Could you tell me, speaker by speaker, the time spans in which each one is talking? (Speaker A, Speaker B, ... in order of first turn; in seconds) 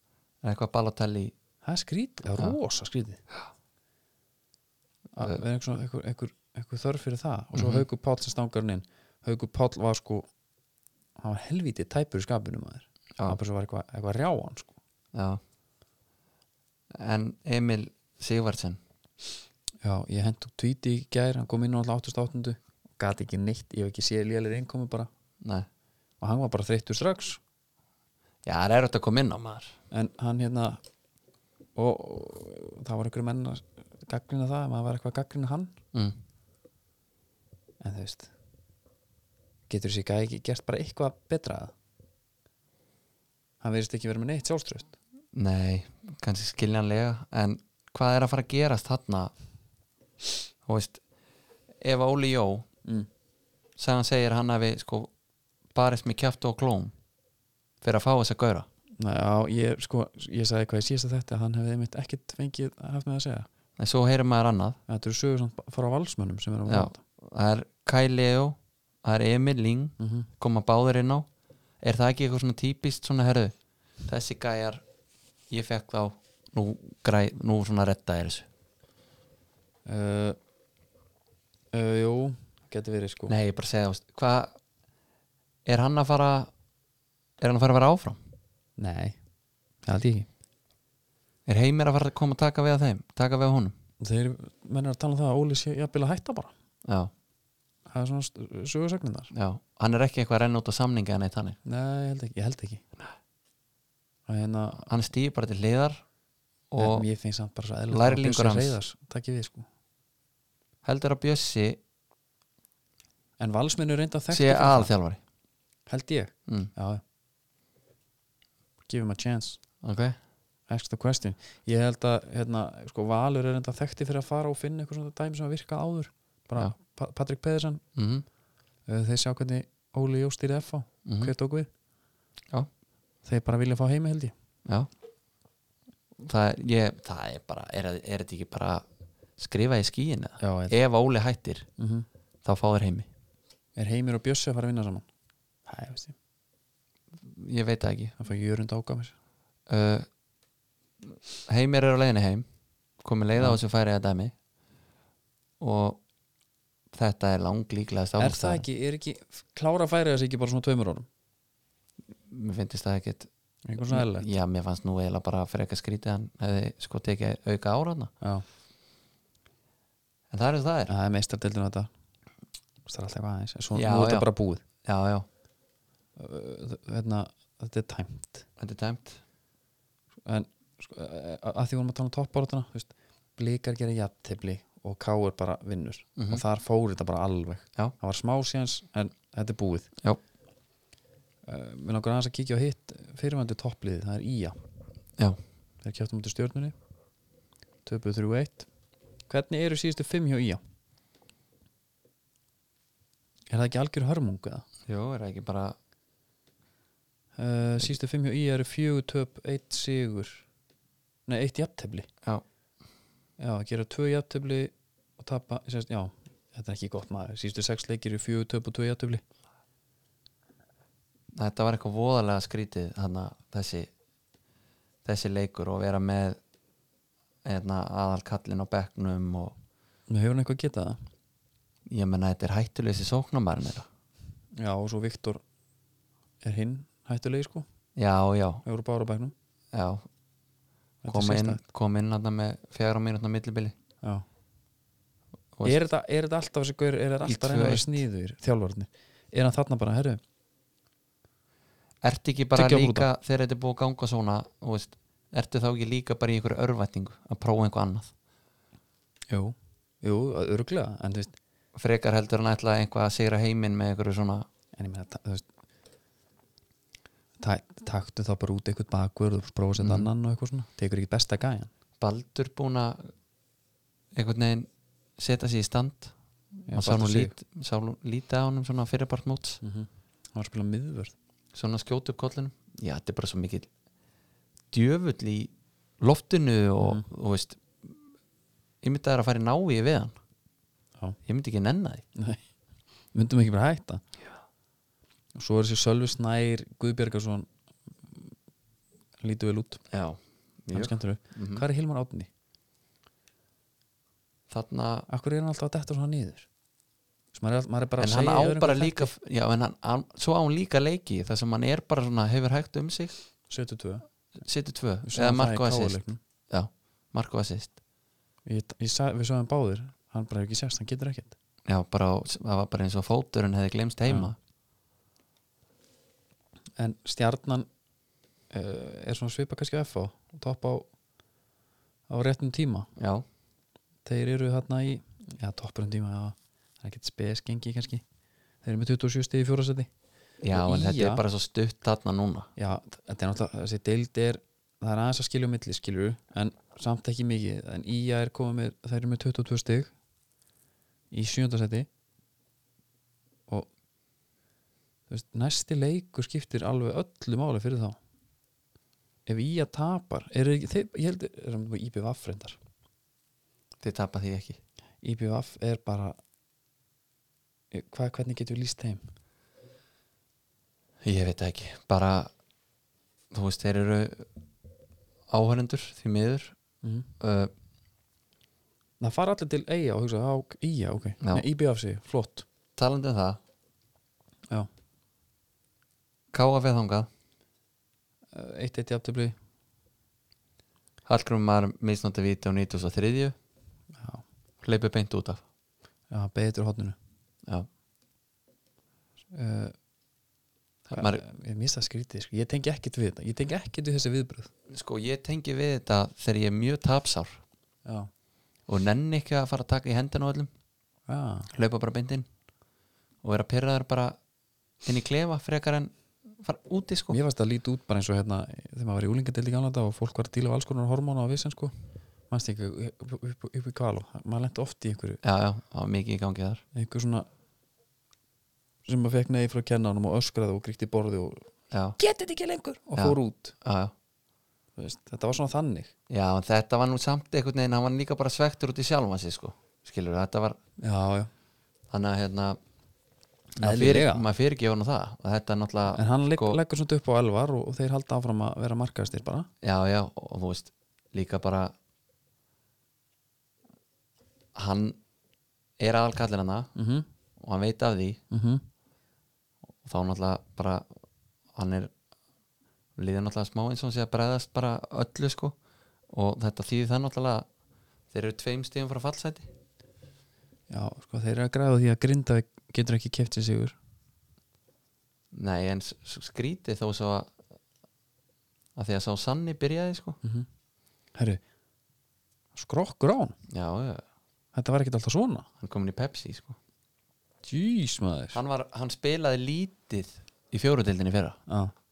Speaker A: 0.4-1.3, 7.5-7.8, 15.1-15.4, 16.9-18.8, 25.4-25.7, 28.4-29.7, 45.3-49.3, 50.6-51.0, 51.8-52.7, 53.8-55.1, 55.7-56.9, 57.8-58.6, 63.8-64.8, 66.7-71.2, 71.8-73.5, 74.0-74.8, 75.5-78.5, 83.3-84.6, 85.7-86.5, 87.4-88.2, 91.5-93.7, 96.8-97.1, 99.3-101.6, 104.8-106.0, 106.7-107.0, 107.9-108.8, 110.8-111.8, 114.3-115.2, 116.5-116.7, 119.8-120.2, 128.0-128.2, 131.1-131.3, 136.2-138.8, 139.4-141.7, 142.4-143.1, 147.2-148.1, 149.7-150.1, 151.5-152.4, 153.0-154.3, 155.6-156.0, 156.9-158.6, 162.3-163.3, 163.9-168.1, 170.3-170.9, 173.7-174.3, 174.8-175.2, 178.6-179.2, 186.2-186.4, 204.9-205.8, 221.3-223.9, 225.0-226.4, 227.4-229.5, 231.9-233.9, 237.9-238.6, 239.7-240.1, 241.1-243.7, 245.6-245.8, 247.2-248.0, 252.0-258.1, 261.7-264.4, 269.8-270.1, 272.0-273.1, 274.1-276.1, 276.7-279.6, 281.5-283.7, 284.7-287.9, 288.8-290.1, 291.2-292.0, 299.9-301.6, 304.5-305.1, 308.0-313.1, 314.4-317.8, 321.7-324.4, 332.9-333.2, 340.4-342.5, 363.8-364.6, 371.0-372.3, 373.3-374.3, 375.3-376.6, 377.2-377.5, 382.8-383.4, 386.3-387.1, 391.1-393.4, 394.6-395.4, 400.9-401.2, 404.7-407.4, 408.7-410.5, 411.5-412.2, 413.2-414.2, 414.8-417.2, 425.2-426.6, 431.7-432.0, 433.0-433.9, 436.1-440.6, 441.9-442.6, 443.6-446.6, 449.6-451.7, 454.6-455.0, 455.8-456.7, 457.4-458.2, 459.8-460.9, 461.5-461.9, 463.0-465.6, 466.1-467.4, 468.1-469.5, 475.3-477.3, 478.8-480.2, 483.5-484.0, 485.6-486.6, 488.3-491.4
Speaker B: 1.6-3.2, 5.1-10.3, 11.2-14.7, 19.8-25.1, 26.2-27.4, 29.9-30.8, 31.7-35.8, 37.8-38.3, 39.7-41.7, 43.6-44.9, 59.0-63.5, 64.9-67.0, 70.0-70.3, 79.8-80.4, 81.7-83.3, 88.8-89.2, 89.8-90.3, 94.0-96.5, 97.9-99.3, 101.6-102.8, 104.3-104.9, 106.8-109.7, 113.4-114.9, 115.8-117.0, 118.8-119.6, 120.7-127.8, 128.8-131.7, 133.2-134.3, 140.4-140.8, 141.8-142.1, 143.8-145.1, 145.7-146.1, 148.2-149.1, 158.2-161.1, 163.7-164.3, 170.9-171.9, 172.8-174.6, 176.2-178.4, 180.2-189.9, 191.4-194.6, 195.8-196.7, 197.8-198.7, 199.3-200.6, 203.5-204.7, 207.3-210.4, 211.2-212.1, 213.4-219.2, 230.1-231.0, 234.6-235.4, 236.4-237.6, 238.6-239.3, 241.0-241.6, 245.6-250.2, 252.6-253.1, 259.3-261.4, 264.7-265.4, 267.4-271.7, 276.6-277.3, 279.6-281.1, 292.1-292.4, 293.1-294.0, 295.3-297.5, 299.2-299.8, 300.7-302.3, 305.1-306.5, 307.3-309.1, 313.5-314.0, 315.0-316.2, 318.4-321.3, 326.8-327.7, 328.5-330.9, 332.1-332.9, 334.0-338.0, 338.6-339.9, 340.5-341.2, 342.6-349.9, 351.1-351.9, 355.1-358.0, 359.2-362.6, 365.0-366.2, 367.7-369.0, 376.8-377.1, 379.0-382.4, 388.3-389.4, 393.9-394.2, 396.1-396.9, 399.3-399.8, 400.9-404.5, 407.8-408.1, 411.1-411.5, 417.1-421.7, 422.3-425.2, 426.7-427.3, 428.8-431.4, 432.0-433.5, 434.8-435.9, 440.8-441.3, 443.6-444.2, 445.9-449.5, 456.8-457.1, 458.3-458.6, 470.7-473.8, 481.1-481.4, 482.5-483.3, 484.5-485.5, 487.4-488.4, 491.5-491.7